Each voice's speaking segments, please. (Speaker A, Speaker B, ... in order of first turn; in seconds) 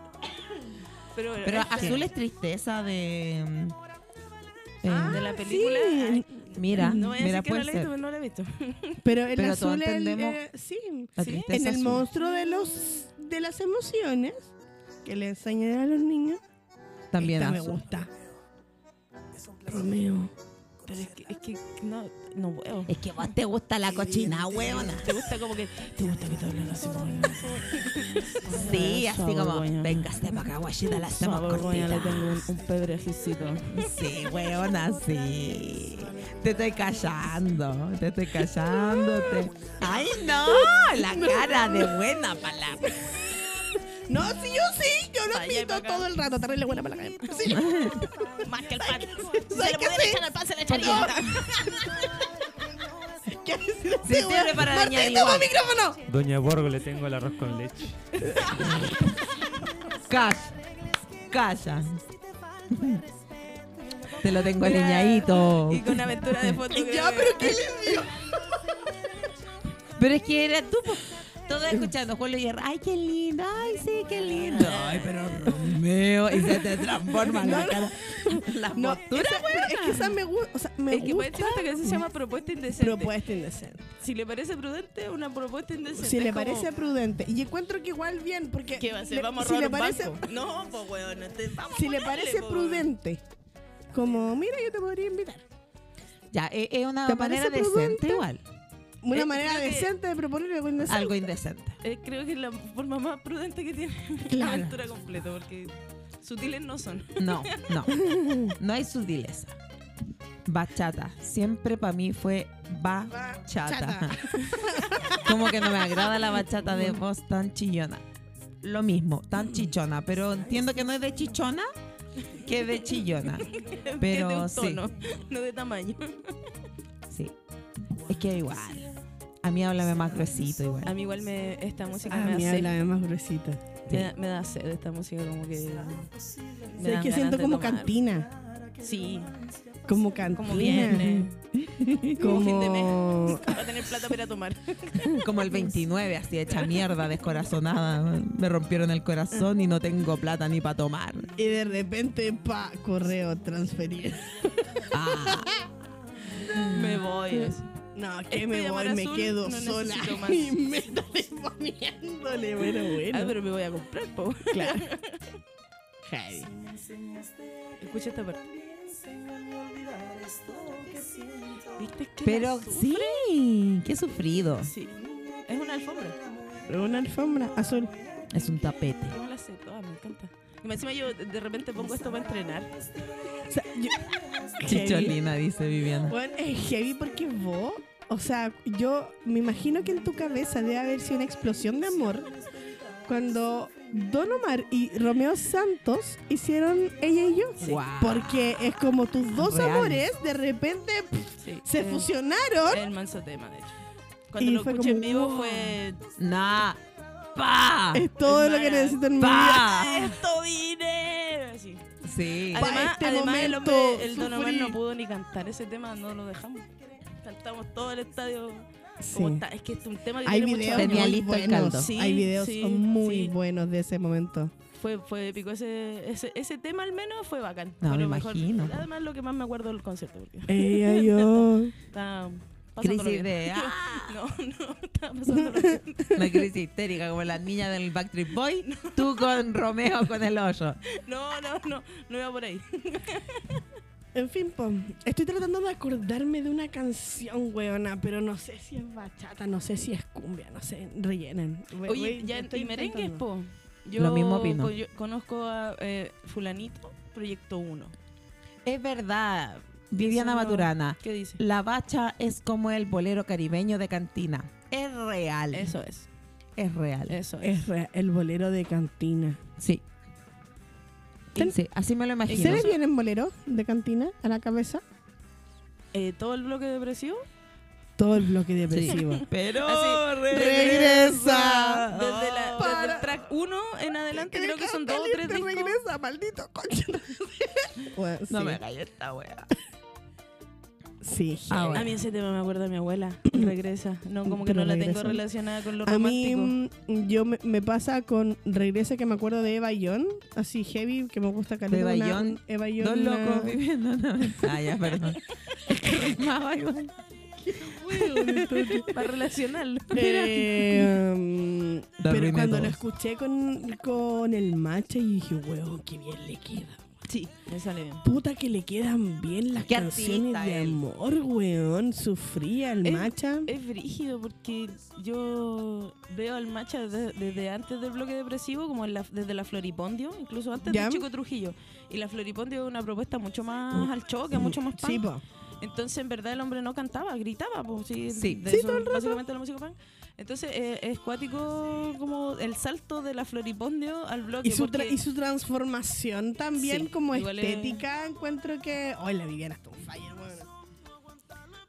Speaker A: 1.1-2.1, 4.9-9.0, 11.2-11.5, 20.9-23.2, 24.9-30.2, 30.8-33.8, 45.3-46.1, 48.4-51.6, 64.6-67.7, 74.5-75.3, 80.9-83.1, 84.0-86.7, 88.8-92.9, 99.1-99.9, 101.8-107.8, 123.4-126.5, 130.8-132.8, 133.9-136.1, 136.7-137.9, 138.8-139.3, 140.3-141.4, 142.1-145.2, 156.6-157.7, 158.3-160.5, 162.8-165.3, 167.8-168.5, 171.7-173.2, 174.6-176.2, 179.1-182.8, 201.4-202.1, 202.7-203.8, 204.3-206.0, 208.2-211.9, 212.5-223.3, 224.7-236.2, 238.6-239.3, 240.9-243.6, 251.8-257.9, 260.0-261.4, 265.5-266.1, 267.1-267.6, 272.3-272.8, 275.9-277.2, 278.9-280.4, 281.9-285.8, 291.7-296.5, 307.9-310.9, 317.1-318.1, 322.8-335.0, 335.6-345.0, 346.6-347.8
Speaker B: 1.4-3.8, 4.8-5.2, 6.5-7.9, 9.3-10.4, 11.2-12.1, 17.1-17.7, 22.9-25.1, 28.5-32.5, 33.7-43.0, 47.4-48.1, 50.7-51.1, 54.0-55.5, 59.9-62.0, 62.7-63.1, 64.1-66.6, 70.0-80.1, 96.3-98.4, 100.8-101.8, 107.2-109.5, 110.5-114.3, 115.2-118.0, 118.6-121.7, 122.3-124.8, 127.1-127.3, 128.1-130.9, 145.2-151.3, 154.9-155.5, 156.5-157.0, 172.2-174.7, 178.3-179.2, 184.6-186.2, 197.6-198.5, 199.3-200.1, 206.2-206.8, 207.3-208.1, 209.2-210.2, 212.0-212.8, 220.7-221.9, 227.8-228.8, 232.8-234.2, 236.1-240.8, 253.9-254.7, 258.6-265.8, 266.6-267.2, 269.6-269.8, 271.4-272.7, 278.7-282.9, 288.3-289.5, 291.5-292.0, 301.7-306.9, 312.0-312.8, 319.6-320.8, 338.1-338.4
Speaker C: 4.8-7.1, 9.0-14.5, 15.0-16.4, 17.1-18.1, 19.6-20.3, 27.1-27.4, 38.5-42.1, 42.8-52.7, 53.2-56.0, 58.3-58.7, 66.7-69.3, 76.5-82.0, 82.8-83.9, 86.0-90.2, 91.7-93.2, 93.9-95.4, 97.0-98.2, 99.0-101.2, 104.3-104.8, 107.9-108.5, 113.1-115.4, 132.1-133.7, 136.8-138.3, 139.8-141.3, 142.0-143.7, 151.3-155.7, 157.9-163.4, 164.5-164.8, 166.1-166.5, 176.7-177.9, 183.4-185.2, 186.1-192.3, 193.0-202.8, 204.4-205.8, 207.9-209.8, 212.6-214.8, 219.0-219.4, 220.2-224.5, 230.5-231.7, 244.1-253.2, 267.4-269.4, 272.3-274.8, 278.0-279.2, 280.3-281.9, 282.6-283.2, 284.1-288.6, 291.0-291.9, 294.2-295.2, 295.8-303.6, 307.4-309.0, 309.9-316.8, 318.0-323.5, 330.6-331.0, 333.7-335.2, 338.4-339.2, 344.4-350.5
Speaker D: 56.1-58.2